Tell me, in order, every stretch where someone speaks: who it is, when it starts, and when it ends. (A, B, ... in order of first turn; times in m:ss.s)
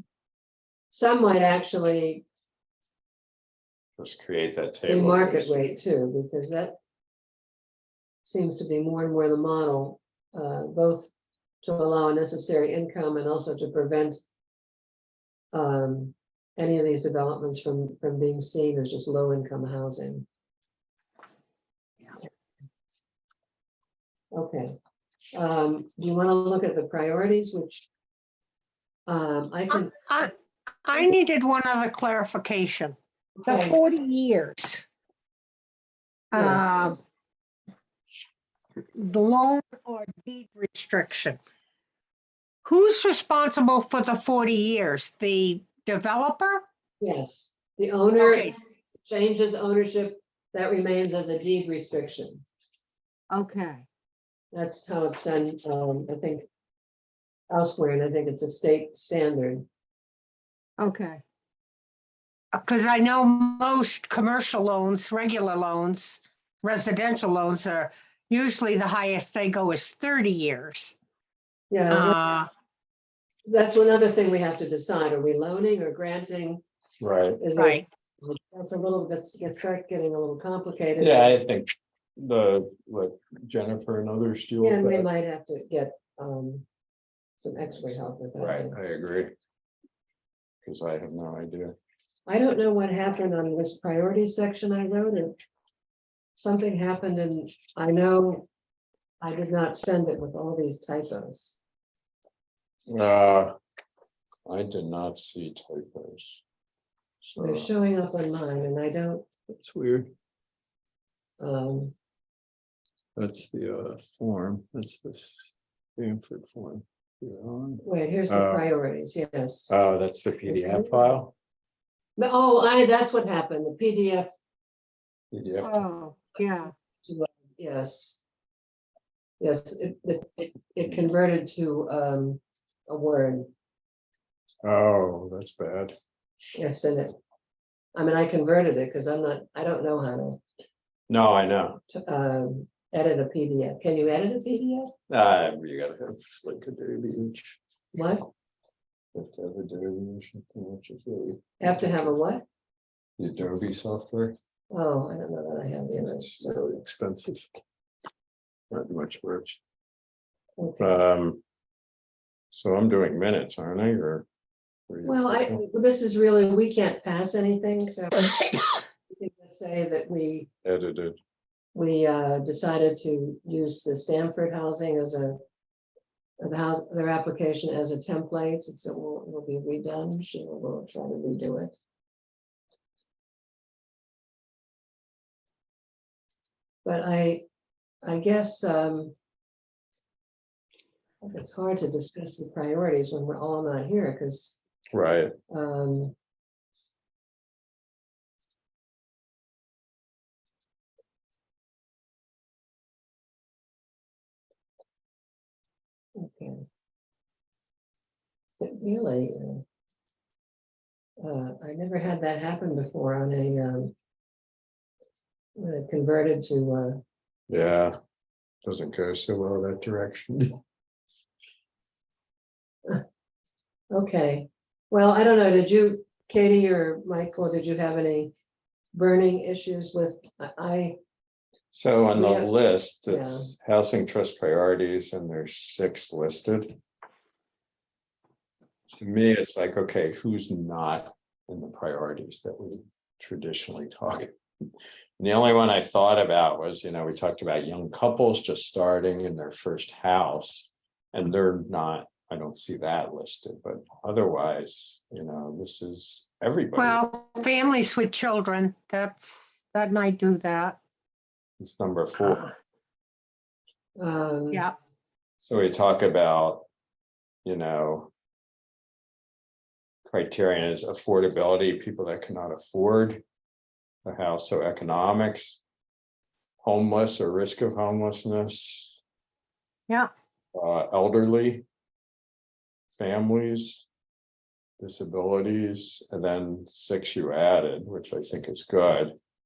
0:00.9-0:02.2 A
0:04.0-0:05.6 B
0:04.9-0:06.8 A
0:08.2-0:14.2 A
0:15.5-0:20.3 A
0:24.3-0:24.8 A
0:25.3-0:27.9 A
0:29.1-0:30.3 A
0:29.7-0:30.3 C
0:30.8-0:34.8 C
0:33.4-0:33.8 A
0:36.3-0:37.0 C
0:36.3-0:37.0 A
0:39.0-0:41.4 C
0:42.6-0:46.6 C
0:47.0-0:52.4 A
0:48.2-0:48.5 C
0:53.3-0:53.9 C
0:54.5-0:56.5 A
0:57.5-0:59.7 A
1:00.8-1:01.2 C
1:02.5-1:11.0 C
1:11.7-1:12.2 A
1:11.9-1:12.5 C
1:13.5-1:16.6 A
1:17.0-1:17.4 B
1:17.4-1:21.4 A
1:17.6-1:17.8 C
1:21.0-1:25.1 B
1:24.6-1:26.7 A
1:27.4-1:28.8 A
1:28.4-1:29.4 B
1:30.6-1:31.8 B
1:32.3-1:35.4 A
1:36.4-1:38.5 A
1:39.2-1:41.6 A
1:42.9-1:43.6 B
1:44.5-1:46.4 B
1:47.2-1:47.7 B
1:47.4-1:49.3 A
1:49.5-1:50.1 B
1:51.4-1:52.0 A
1:53.2-1:58.7 B
1:57.8-1:59.7 A
1:59.7-2:01.3 B
2:00.5-2:01.1 A
2:02.2-2:04.3 A
2:05.3-2:05.8 B
2:05.6-2:06.7 C
2:07.0-2:08.2 A
2:09.4-2:13.5 A
2:14.6-2:16.0 B
2:16.6-2:17.2 A
2:17.9-2:20.4 A
2:21.1-2:21.8 B
2:21.9-2:24.9 A
2:25.1-2:27.6 B
2:27.9-2:28.3 A
2:29.1-2:32.1 B
2:31.6-2:32.4 A
2:33.2-2:34.4 B
2:34.7-2:36.6 A
2:36.0-2:37.5 B
2:38.7-2:39.6 B
2:40.6-2:41.0 A
2:40.8-2:41.4 B
2:42.5-2:44.3 B
2:44.9-2:45.6 B
2:45.0-2:48.4 A
2:49.1-2:50.5 A
2:50.6-2:51.2 B
2:51.7-2:55.4 A
2:56.4-3:01.8 A
3:06.8-3:07.5 A
3:08.0-3:09.2 A
3:11.2-3:14.6 A
3:14.9-3:15.3 B
3:15.5-3:16.2 A
3:26.2-3:26.6 A
3:28.6-3:29.6 A
3:31.2-3:33.9 A
3:35.6-3:37.0 A
3:37.5-3:38.0 B
3:38.6-3:40.6 B
3:43.9-3:48.3 A
3:48.9-3:51.0 A
3:51.7-3:56.8 B
3:52.1-3:52.5 A
3:53.1-3:53.5 A
3:58.9-4:04.3 B
4:05.2-4:17.0 B
4:16.8-4:20.8 C
4:21.6-4:22.5 B
4:24.0-4:24.7 A
4:25.4-4:26.7 B
4:27.4-4:28.1 B
4:30.1-4:33.2 B
4:34.0-4:35.6 B
4:36.6-4:39.0 B
4:40.5-4:41.6 B
4:43.0-4:43.9 B
4:44.8-4:49.2 B